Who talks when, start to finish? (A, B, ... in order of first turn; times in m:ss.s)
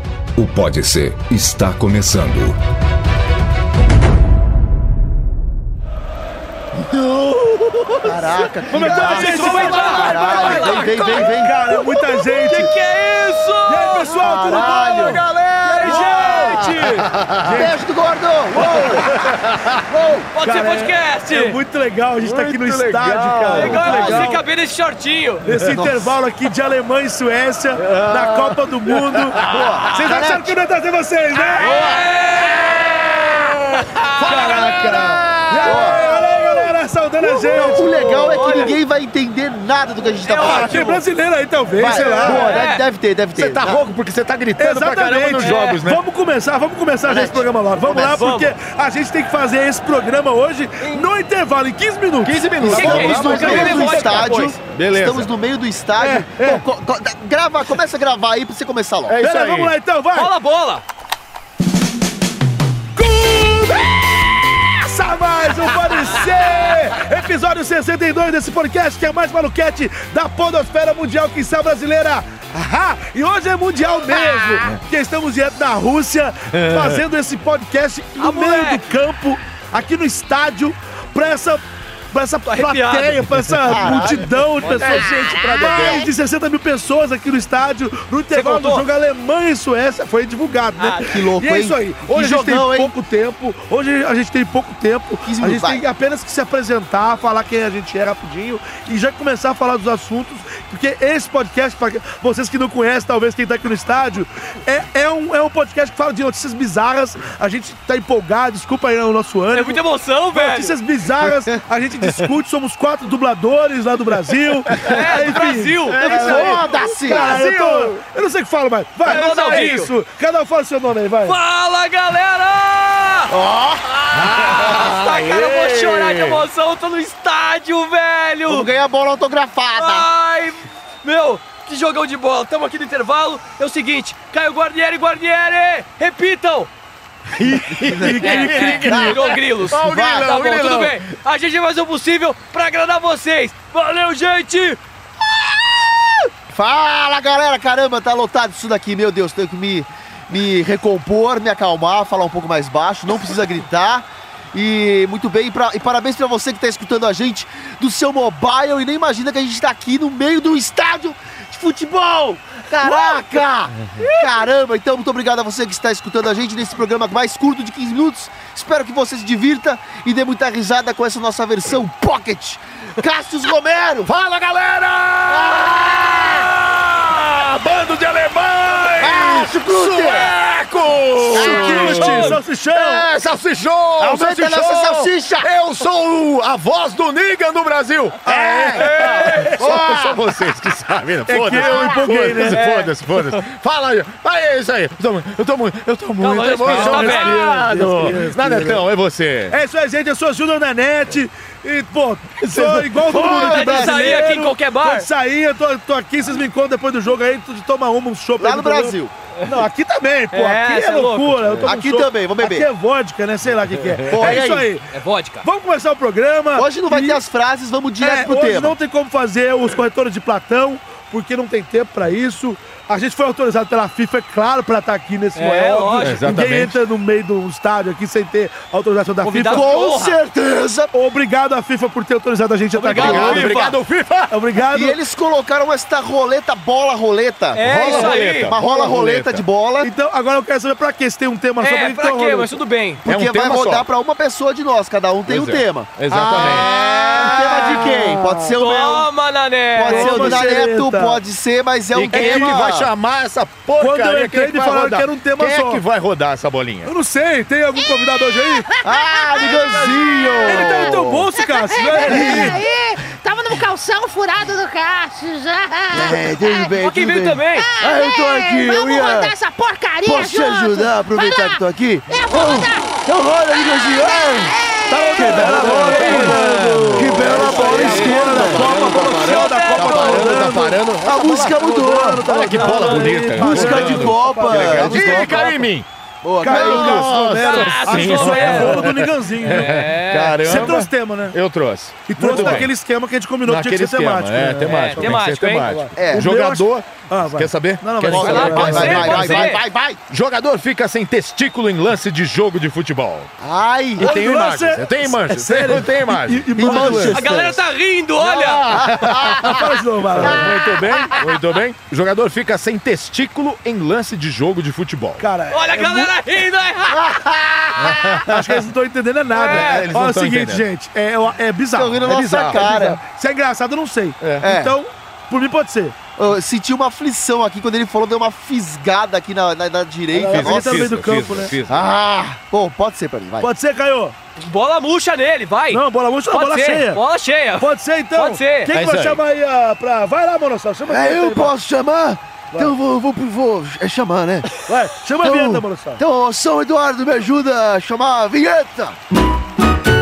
0:00.4-0:02.6 A
0:06.8-0:08.5 B
0:08.0-0:11.6 C
0:08.7-0:12.7 D
0:08.9-0:11.3 E
0:09.0-0:09.6 B
0:10.3-0:11.2 B
0:12.3-0:14.2 E
0:13.7-0:15.3 D
0:14.0-0:16.8 C
0:14.9-0:17.7 B
0:15.6-0:17.0 E
0:15.8-0:17.8 D
0:17.4-0:19.2 C
0:18.5-0:19.9 B
0:19.9-0:20.3 C
0:20.3-0:21.6 E
0:20.4-0:24.4 D
0:22.2-0:24.0 B
0:23.5-0:25.5 E
0:23.9-0:24.3 C
0:25.4-0:31.8 D
0:25.5-0:26.2 C
0:27.8-0:30.3 B
0:29.4-0:30.5 C
0:31.6-0:32.9 E
0:31.8-0:36.6 B
0:33.7-0:34.6 E
0:34.2-0:38.8 D
0:35.6-0:36.1 C
0:37.2-0:40.9 C
0:38.3-0:38.8 E
0:40.2-0:41.0 E
0:40.4-0:42.5 D
0:41.8-0:43.8 C
0:42.2-0:42.8 E
0:43.4-0:46.0 B
0:44.6-0:53.8 D
0:45.4-0:45.8 E
0:47.0-0:48.1 C
0:48.0-0:48.5 E
0:50.8-0:51.1 E
0:52.2-0:55.3 B
0:52.6-0:54.5 E
0:52.6-0:59.2 C
0:56.0-0:56.6 D
0:59.1-0:59.7 B
0:59.2-1:00.3 D
1:00.1-1:00.8 E
1:03.0-1:03.8 D
1:04.6-1:49.8 D
1:16.5-1:17.0 B
1:18.2-1:18.9 E
1:22.4-1:23.2 E
1:23.6-1:24.4 C
1:24.6-1:26.1 B
1:28.3-1:28.9 E
1:30.8-1:31.2 E
1:31.1-1:32.9 C
1:35.2-1:35.8 C
1:49.5-1:50.8 E
1:50.3-2:01.4 D
1:54.7-1:58.1 B
1:54.8-1:56.0 E
1:56.0-1:57.4 C
1:59.0-1:59.9 E
2:01.2-2:08.7 E
2:03.3-2:03.8 C
2:04.1-2:06.4 B
2:08.4-2:10.1 C
2:09.7-2:16.7 E
2:17.4-2:21.0 B
2:17.7-2:18.8 D
2:18.0-2:20.3 C
2:18.0-2:24.8 E
2:26.5-2:54.1 C
2:42.8-2:43.2 E
2:44.0-2:44.3 E
2:54.0-3:19.6 B
2:55.3-2:55.7 C
2:59.0-3:00.3 C
3:01.3-3:03.1 D
3:01.3-3:02.3 C
3:04.0-3:05.5 C
3:08.2-3:09.8 D
3:08.7-3:09.5 E
3:09.6-3:10.2 C
3:11.2-3:12.6 D
3:12.5-3:13.4 E
3:16.2-3:17.4 E
3:16.6-3:18.8 D
3:19.5-3:34.9 D
3:22.4-3:23.5 B
3:23.1-3:24.2 C
3:23.3-3:25.1 E
3:28.4-3:29.1 C
3:30.3-3:31.4 E
3:31.6-3:32.7 C
3:34.1-3:34.7 C
3:34.3-3:35.4 E
3:35.4-3:37.2 D
3:36.5-3:38.8 C
3:38.0-3:49.7 D
3:45.3-3:46.3 E
3:46.0-3:46.8 B
3:49.2-3:50.2 E
3:49.5-3:50.9 C
3:50.9-3:53.6 D
3:52.7-3:53.8 E
3:52.9-3:54.3 B
3:54.3-3:55.0 D
3:54.7-3:59.9 C
3:57.5-3:58.5 E
3:57.6-3:59.4 B
3:59.8-4:02.6 D
4:01.6-4:03.0 E
4:03.0-4:09.1 C
4:03.0-4:03.9 B
4:05.2-4:08.0 B
4:06.1-4:08.5 D
4:06.4-4:07.3 E
4:08.6-4:10.4 E
4:09.7-4:12.9 C
4:09.9-4:11.2 D
4:11.9-4:16.9 B
4:12.1-4:12.7 D
4:13.8-4:15.8 D
4:16.8-4:18.7 D
4:18.8-4:21.3 C
4:18.8-4:19.6 F
4:19.4-4:20.0 E
4:20.1-4:26.8 F
4:20.4-4:22.7 D
4:25.9-4:29.4 C
4:26.8-4:27.7 E
4:27.6-4:36.3 F
4:30.0-4:34.6 C
4:34.9-4:45.3 D
4:35.1-4:38.7 C
4:35.1-4:41.1 B
4:37.5-4:40.1 E
4:39.8-4:45.6 C
4:42.2-4:45.9 B
4:46.2-4:47.2 C
4:46.4-4:49.7 D
4:46.5-4:52.7 B
4:47.4-4:50.6 E
4:50.1-4:50.8 C
4:50.4-4:51.4 D
4:52.1-4:59.5 D
4:53.4-4:59.6 B
4:54.6-4:55.8 E
4:55.9-4:56.3 C
4:58.1-5:00.0 C
4:58.2-4:59.6 E
5:00.1-5:03.3 B
5:03.4-5:04.2 C
5:04.0-5:07.2 B
5:04.0-5:07.2 D
5:06.5-5:07.6 C
5:07.1-5:08.7 E
5:08.2-5:15.3 B
5:08.7-5:11.2 C
5:09.3-5:10.6 D
5:15.2-5:16.2 D
5:15.5-5:17.0 E
5:16.9-5:18.1 C
5:17.8-5:18.6 B
5:18.2-5:26.0 D
5:19.3-5:19.9 E
5:19.5-5:20.7 B
5:21.7-5:23.0 C
5:22.0-5:22.7 B
5:24.2-5:24.5 B
5:24.4-5:24.8 C
5:26.2-5:30.8 C
5:30.1-5:31.5 D
5:30.2-5:31.9 B
5:31.6-5:33.5 C
5:33.4-5:34.1 D
5:34.4-5:38.7 E
5:35.7-5:37.0 D
5:37.6-5:41.5 D
5:38.7-5:39.2 B
5:40.9-5:44.5 C
5:44.6-5:46.0 D
5:45.2-5:49.0 C